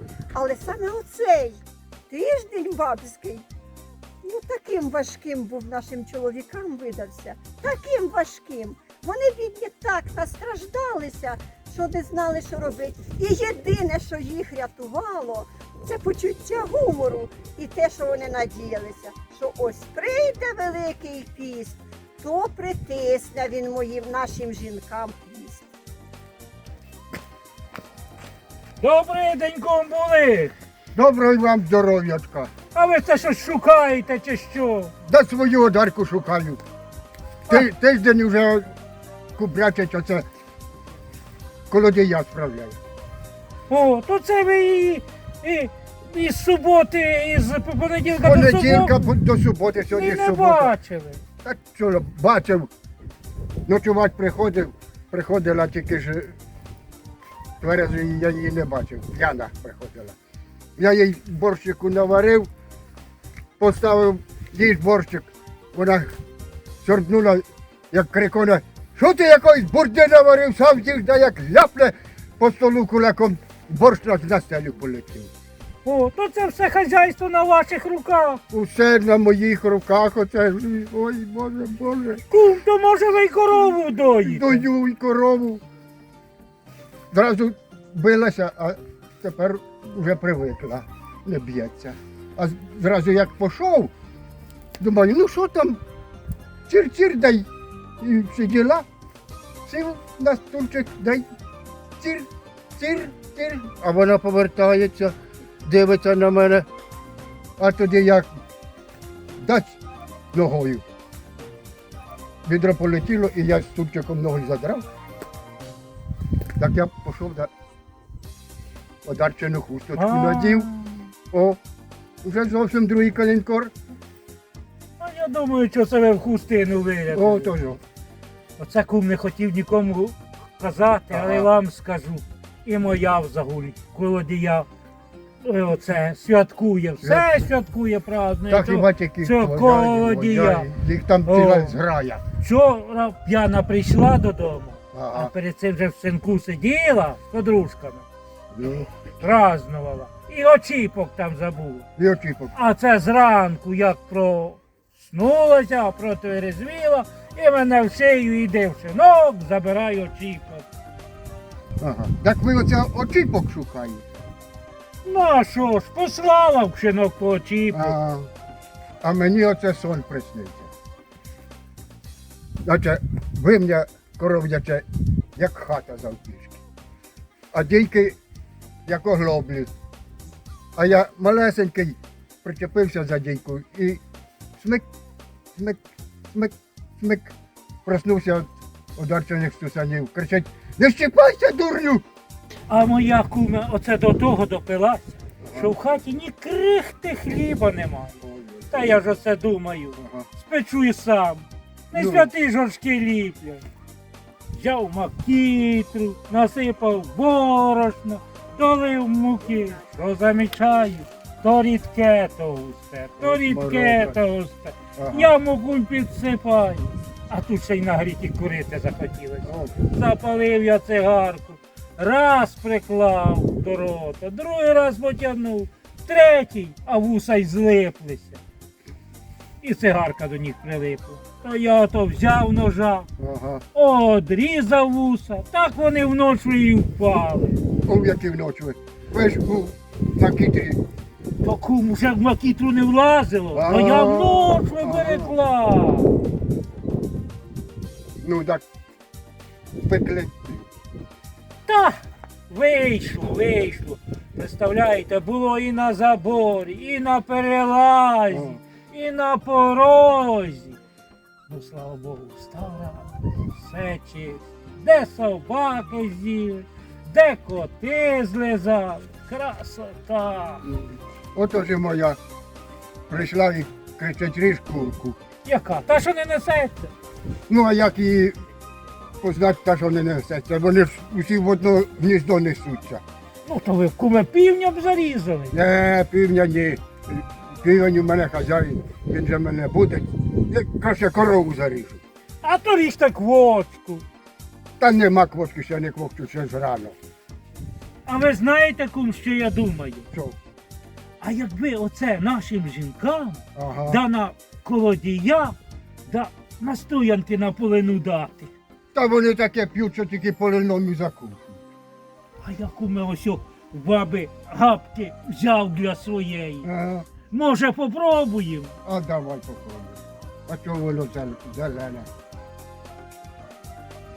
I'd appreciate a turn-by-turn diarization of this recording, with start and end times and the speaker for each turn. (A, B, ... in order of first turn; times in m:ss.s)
0:00.3-0:03.5 A
0:04.2-0:25.7 A
0:28.8-0:30.5 B
0:30.9-0:32.5 C
0:32.7-0:34.9 B
0:35.0-0:36.6 C
0:37.5-0:38.7 C
0:39.4-0:40.3 C
0:41.7-0:42.8 C
0:43.7-0:49.1 B
0:48.1-0:50.7 C
0:49.9-0:51.2 B
0:51.4-0:52.7 C
0:53.6-0:56.4 C
0:57.6-1:00.2 C
1:00.8-1:02.5 C
1:03.6-1:06.1 C
1:06.8-1:15.3 C
1:15.8-1:18.4 B
1:18.5-1:22.2 C
1:22.3-1:24.7 B
1:24.2-1:25.6 C
1:27.1-1:33.9 C
1:34.8-1:35.8 C
1:36.7-1:37.5 C
1:38.0-1:38.8 C
1:39.6-1:41.2 C
1:42.0-1:46.7 C
1:47.6-1:48.3 C
1:49.4-1:49.8 C
1:50.3-1:50.8 C
1:52.4-1:54.8 C
1:56.6-1:57.5 C
1:59.0-2:00.7 C
1:59.9-2:01.1 B
2:01.3-2:01.6 C
2:02.2-2:03.7 C
2:05.0-2:07.5 B
2:07.1-2:07.8 C
2:08.6-2:14.7 B
2:11.1-2:11.5 C
2:15.4-2:20.7 B
2:17.0-2:17.3 C
2:18.5-2:22.2 C
2:21.2-2:21.8 B
2:22.4-2:28.0 B
2:24.9-2:25.3 C
2:28.5-2:28.9 C
2:29.1-2:31.8 B
2:32.0-2:32.5 C
2:32.5-2:40.6 B
2:41.8-2:44.1 C
2:45.0-2:48.0 B
2:47.7-2:48.3 C
2:49.0-2:50.7 C
2:52.6-2:56.6 C
2:57.5-2:58.2 C
2:58.8-2:59.7 C
3:00.8-3:04.0 C
3:04.6-3:04.8 C
3:05.6-3:05.8 C
3:06.3-3:07.3 C
3:07.8-3:12.0 C
3:12.7-3:18.2 B
3:15.4-3:15.7 C
3:18.2-3:19.0 C
3:18.7-3:23.6 B
3:20.0-3:20.3 C
3:21.9-3:22.3 C
3:24.5-3:48.4 B
3:33.2-3:34.2 C
3:35.0-3:35.3 C
3:39.4-3:39.8 C
3:49.6-3:53.1 B
3:53.2-3:53.6 C
3:53.7-3:57.6 B
3:57.8-4:00.8 C
4:01.4-4:06.1 B
4:03.5-4:05.3 C
4:08.2-4:08.6 C
4:09.8-4:10.7 C
4:11.7-4:20.8 B
4:18.3-4:18.6 C
4:21.5-4:30.6 B
4:30.6-4:32.2 C
4:33.1-4:35.2 C
4:35.4-4:36.9 B
4:37.5-4:38.4 C
4:39.2-4:43.0 C
4:43.4-4:45.5 B
4:45.5-4:52.0 C
4:52.4-4:54.0 B
4:54.8-4:57.0 C
4:58.0-5:00.1 B
5:01.2-5:05.6 B
5:03.5-5:04.0 C
5:06.1-5:08.5 B
5:08.9-5:11.6 C
5:12.4-5:16.7 B
5:16.6-5:17.1 C
5:17.3-5:18.7 B
5:18.8-5:22.1 C